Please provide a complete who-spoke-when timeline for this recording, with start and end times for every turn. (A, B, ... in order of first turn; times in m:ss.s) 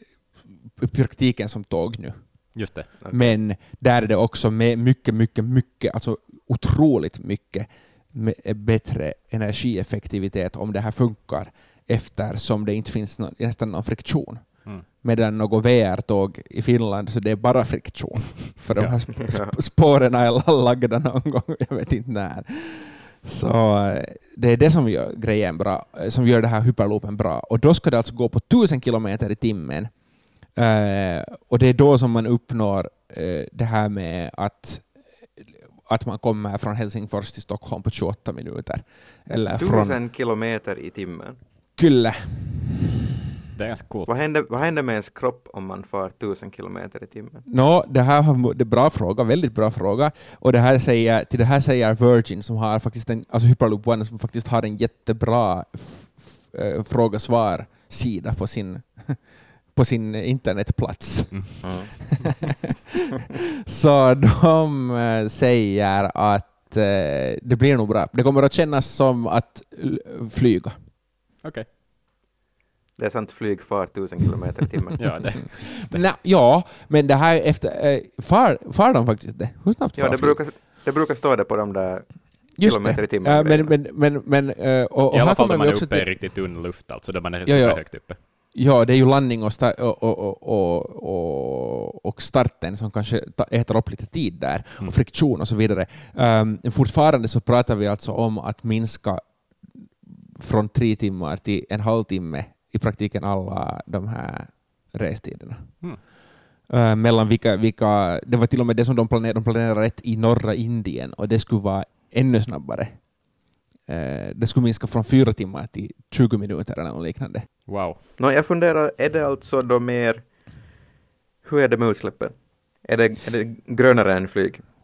0:00.7-0:29.9 A
0:02.5-0:02.9 B
0:03.0-0:03.4 C
0:18.7-0:19.0 B
0:19.2-0:19.6 C
0:30.5-0:35.0 A
0:35.8-0:40.0 A
0:39.5-0:41.4 C
0:41.8-0:42.8 A
0:43.5-0:44.1 B
0:44.0-0:47.4 C
0:47.5-1:01.8 A
1:01.6-1:02.2 C
1:03.6-1:10.8 A
1:13.0-1:15.4 C
1:15.0-1:16.1 B
1:15.8-1:20.4 A
1:20.0-1:23.7 C
1:22.6-1:26.2 A
1:25.1-1:28.2 B
1:27.4-1:39.3 A
1:40.4-1:46.0 A
1:46.7-1:53.1 A
1:53.8-1:57.5 A
1:57.7-1:58.0 B
1:58.2-2:00.3 C
2:01.4-2:04.6 C